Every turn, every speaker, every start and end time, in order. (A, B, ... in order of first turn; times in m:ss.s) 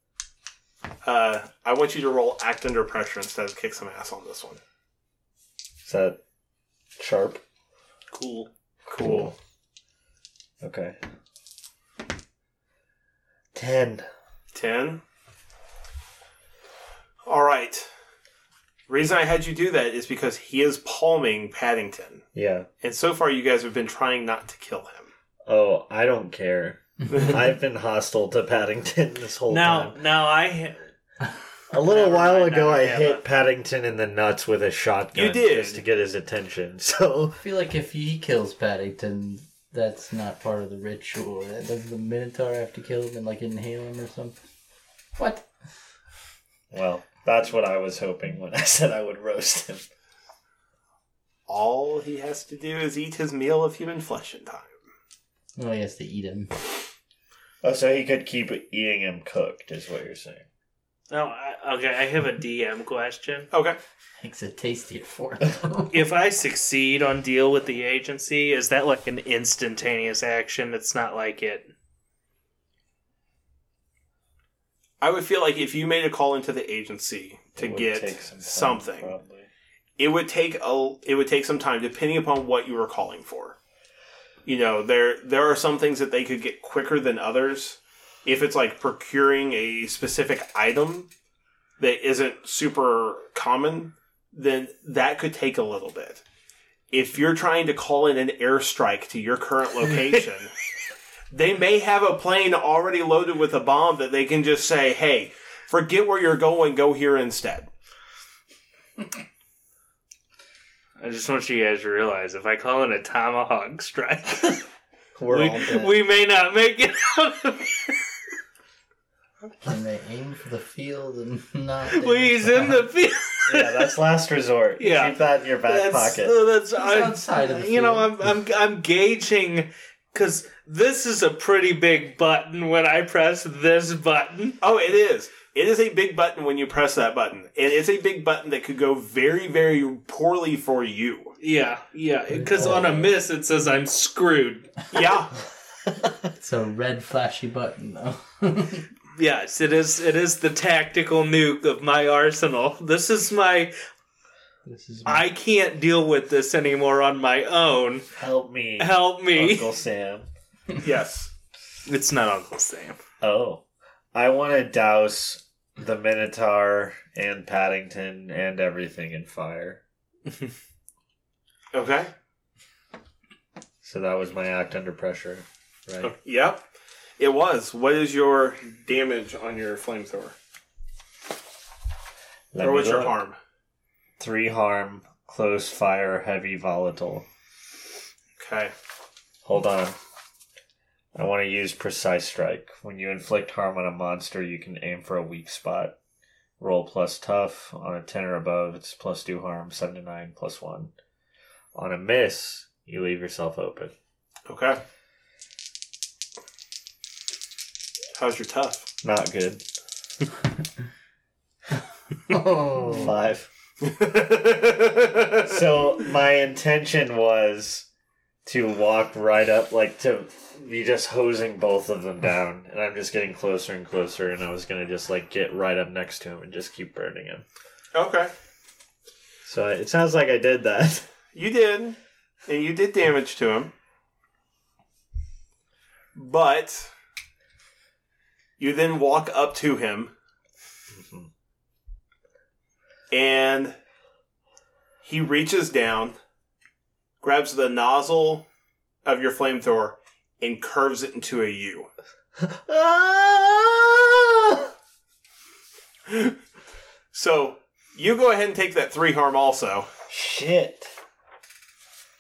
0:01.0-0:04.6 A
0:05.8-0:06.2 B
0:07.0-0:07.4 B
0:08.1-0:08.5 C
0:08.9-0:09.3 A
0:09.0-0:09.3 B
0:10.6-0:11.0 B
0:13.5-0:14.1 B
0:14.5-0:15.0 A
0:17.2-0:17.9 A
0:18.9-0:22.2 A
0:22.3-0:22.7 B
0:22.8-0:25.1 A
0:25.5-0:30.0 B
0:29.5-0:30.8 C
0:31.7-0:37.4 B
0:31.8-0:33.2 C
0:35.1-0:35.8 A
0:37.4-0:44.4 D
0:45.2-0:45.5 D
0:46.7-0:49.8 B
0:51.5-0:54.7 A
0:55.6-0:56.5 D
0:57.6-1:00.4 B
1:01.1-1:03.5 C
1:03.5-1:03.8 A
1:04.2-1:05.9 D
1:05.9-1:11.7 C
1:15.0-1:19.1 A
1:17.6-1:19.5 B
1:20.0-1:23.6 A
1:24.4-1:31.1 A
1:31.8-1:36.2 A
1:36.9-1:40.5 A
1:41.3-1:47.7 A
1:51.0-1:54.6 C
1:55.2-1:56.0 B
1:55.3-1:58.0 C
1:59.6-2:02.9 D
2:01.9-2:04.0 C
2:03.5-2:06.4 B
2:04.8-2:14.6 C
2:06.8-2:08.3 D
2:14.6-2:21.4 A
2:21.4-2:24.7 C
2:22.3-2:23.1 D
2:22.5-2:23.1 B
2:24.9-2:25.3 A
2:26.4-2:28.9 D
2:29.1-2:33.7 C
2:34.6-2:35.2 D
2:35.0-2:38.1 C
2:38.2-2:40.3 B
2:38.8-2:39.7 C
2:40.8-2:41.3 A
2:41.8-2:43.0 C
2:43.2-2:49.8 B
2:51.7-2:52.1 A
2:53.8-2:56.1 B
2:56.0-2:56.6 A
2:57.2-3:00.3 A
3:02.5-3:03.2 B
3:02.6-3:03.4 A
3:04.2-3:07.2 B
3:08.4-3:08.7 A
3:09.4-3:10.0 B
3:11.1-3:16.0 B
3:16.6-3:20.9 B
3:21.7-3:23.9 B
3:24.5-3:24.8 A
3:28.2-3:28.8 A
3:29.0-3:29.6 B
3:32.3-3:33.1 D
3:32.8-3:33.5 B
3:33.8-3:35.6 A
3:35.4-3:37.9 B
3:38.4-3:47.4 B
3:47.9-3:48.3 A
3:49.4-3:51.1 B
3:51.3-3:53.7 A
3:56.1-3:56.9 A
3:58.6-4:00.1 A
4:01.0-4:01.3 B
4:03.1-4:03.8 A
4:05.0-4:06.2 A
4:07.2-4:08.4 A
4:09.0-4:11.9 A
4:12.4-4:14.7 B
4:16.1-4:16.4 A
4:17.1-4:19.9 A
4:20.1-4:20.9 B